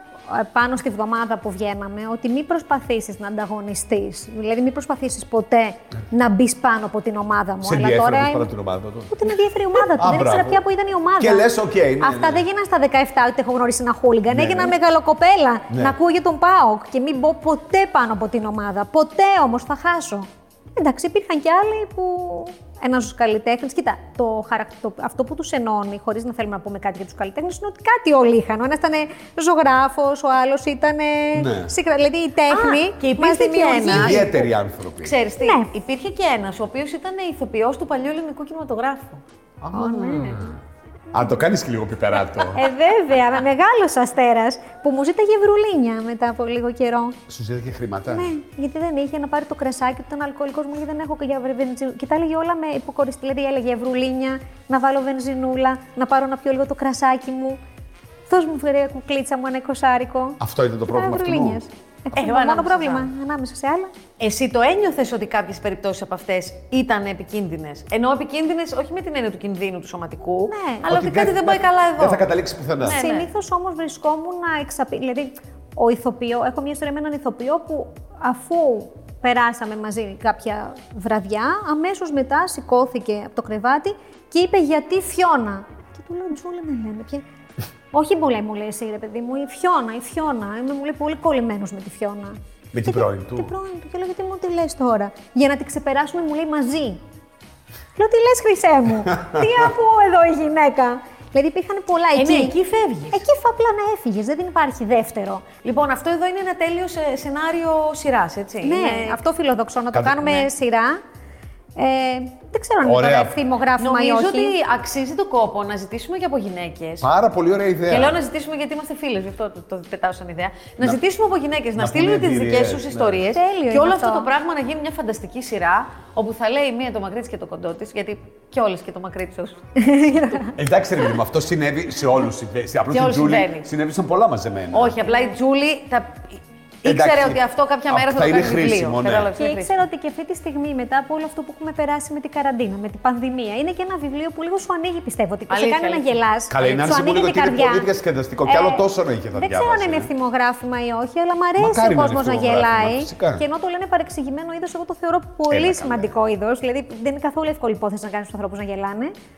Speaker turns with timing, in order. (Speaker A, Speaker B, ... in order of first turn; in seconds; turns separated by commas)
Speaker A: 0.3-8.5, Speaker B: 7.6-9.2, Speaker A: 9.1-11.5, Speaker B: 9.9-10.6, Speaker B: 11.2-12.4, Speaker A: 12.0-34.4, Speaker B: 14.3-14.8, Speaker B: 15.7-16.0, Speaker B: 31.3-31.7, Speaker C: 32.5-34.4, Speaker B: 33.9-35.2, Speaker C: 35.0-39.2, Speaker A: 35.4-35.7, Speaker B: 39.6-40.6, Speaker A: 39.7-40.4, Speaker C: 39.9-40.5, Speaker B: 41.1-42.6, Speaker A: 42.5-47.2, Speaker B: 47.3-48.3, Speaker A: 48.1-57.6, Speaker A: 58.3-63.9, Speaker B: 60.4-61.6, Speaker C: 62.2-63.1, Speaker C: 64.2-72.3, Speaker A: 70.5-70.9, Speaker B: 70.9-73.0, Speaker C: 72.8-73.3, Speaker A: 72.9-87.2, Speaker A: 87.9-97.0, Speaker B: 92.7-93.5, Speaker A: 98.0-102.5, Speaker C: 102.2-103.2, Speaker A: 103.1-105.5, Speaker C: 105.6-109.2, Speaker A: 108.6-111.0, Speaker B: 109.9-110.2, Speaker C: 110.1-110.5, Speaker A: 111.8-114.6, Speaker B: 112.8-113.4, Speaker C: 113.8-117.1, Speaker B: 117.0-118.2, Speaker C: 117.9-130.5, Speaker B: 121.8-123.3, Speaker A: 123.3-124.3, Speaker A: 129.8-130.5, Speaker B: 130.5-135.0, Speaker C: 132.9-133.7, Speaker C: 134.7-139.8, Speaker B: 136.8-139.3, Speaker A: 139.4-147.9, Speaker C: 145.5-146.2, Speaker B: 146.5-150.1, Speaker A: 148.4-159.1, Speaker B: 151.6-153.4, Speaker B: 155.5-156.1